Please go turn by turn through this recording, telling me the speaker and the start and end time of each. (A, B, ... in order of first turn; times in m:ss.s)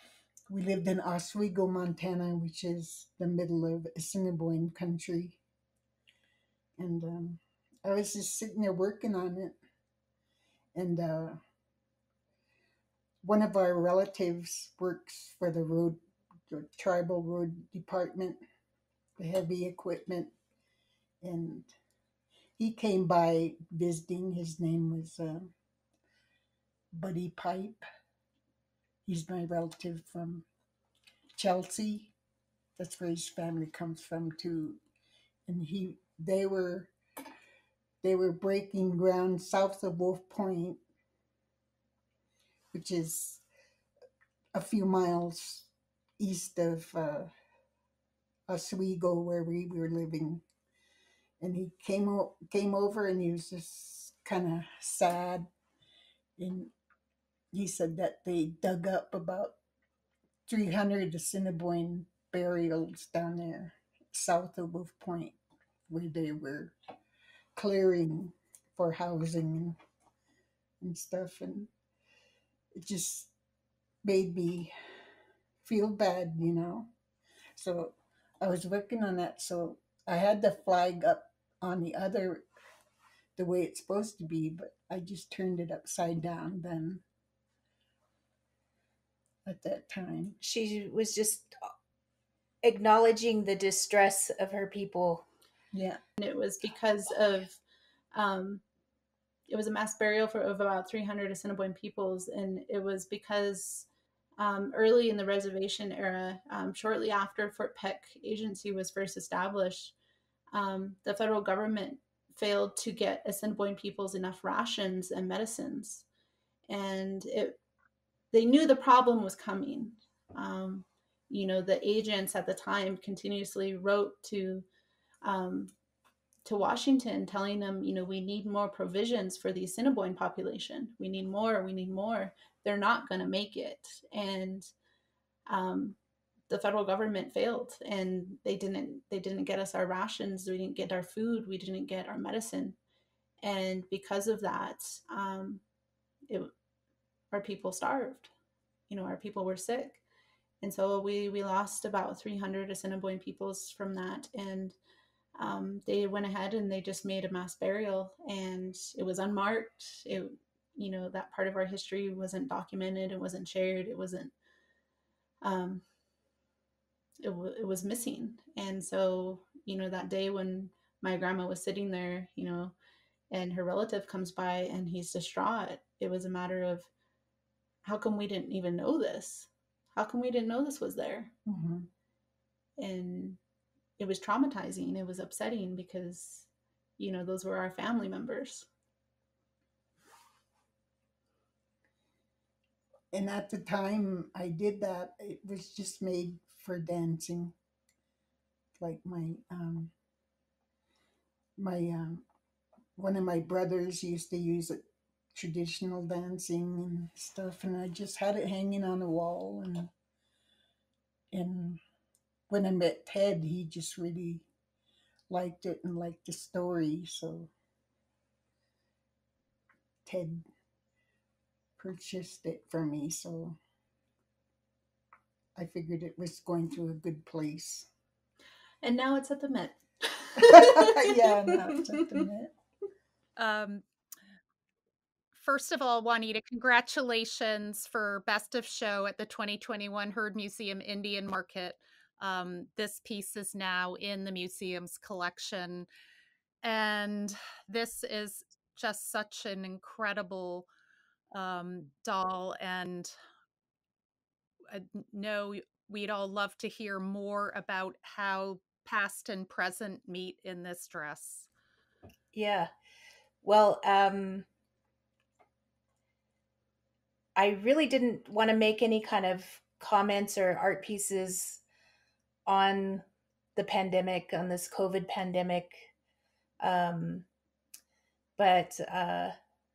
0:00.5-0:05.4 A
0:06.8-0:09.6 A
0:10.7-0:11.4 A
0:13.2-0:18.4 A
0:19.2-0:20.3 A
0:21.2-0:21.7 A
0:22.6-0:25.5 A
0:27.0-0:27.9 A
0:29.0-0:30.5 A
0:31.4-0:32.1 A
0:32.8-0:34.8 A
0:35.5-0:36.9 A
0:38.0-0:40.8 A
0:42.7-0:43.4 A
0:44.6-0:47.3 A
0:48.5-0:50.4 A
0:51.4-0:55.5 A
0:56.4-0:56.7 A
0:57.5-0:59.6 A
1:00.5-1:05.4 A
1:05.9-1:06.8 A
1:07.6-1:09.8 A
1:10.8-1:11.7 A
1:12.7-1:13.3 A
1:14.0-1:14.7 A
1:15.6-1:16.9 A
1:17.6-1:22.4 A
1:23.4-1:27.0 A
1:29.4-1:30.4 A
1:30.4-1:31.6 B
1:32.6-1:35.3 B
1:35.7-1:36.0 A
1:36.2-1:37.6 C
1:38.1-1:38.6 C
1:39.5-1:50.0 C
1:50.5-1:56.0 C
1:56.7-1:57.6 C
1:58.3-2:04.7 C
2:05.2-2:05.7 C
2:06.4-2:14.7 C
2:15.5-2:16.0 C
2:16.5-2:22.8 C
2:23.4-2:25.6 C
2:27.3-2:28.3 C
2:28.9-2:30.0 C
2:30.6-2:34.8 C
2:35.4-2:44.3 C
2:45.4-2:45.8 C
2:47.2-2:52.8 C
2:53.3-2:56.9 C
2:57.8-3:01.3 C
3:01.5-3:01.9 A
3:02.8-3:03.4 C
3:04.0-3:08.7 C
3:13.1-3:17.5 A
3:18.8-3:19.9 A
3:21.6-3:22.2 A
3:23.0-3:29.9 A
3:31.3-3:31.8 A
3:32.5-3:34.5 A
3:35.3-3:37.5 A
3:40.1-3:40.4 A
3:41.8-3:43.6 A
3:45.6-3:47.9 A
3:48.8-3:52.1 C
3:50.4-3:52.5 A
3:53.4-3:53.8 D
3:55.3-4:05.9 D
4:06.6-4:10.7 D
4:11.3-4:13.1 D
4:14.7-4:21.5 D
4:22.3-4:22.7 B
4:23.4-4:24.5 B
4:27.4-4:31.6 B
4:32.5-4:33.0 B
4:33.6-4:35.9 B
4:36.6-4:37.3 B
4:38.4-4:39.3 B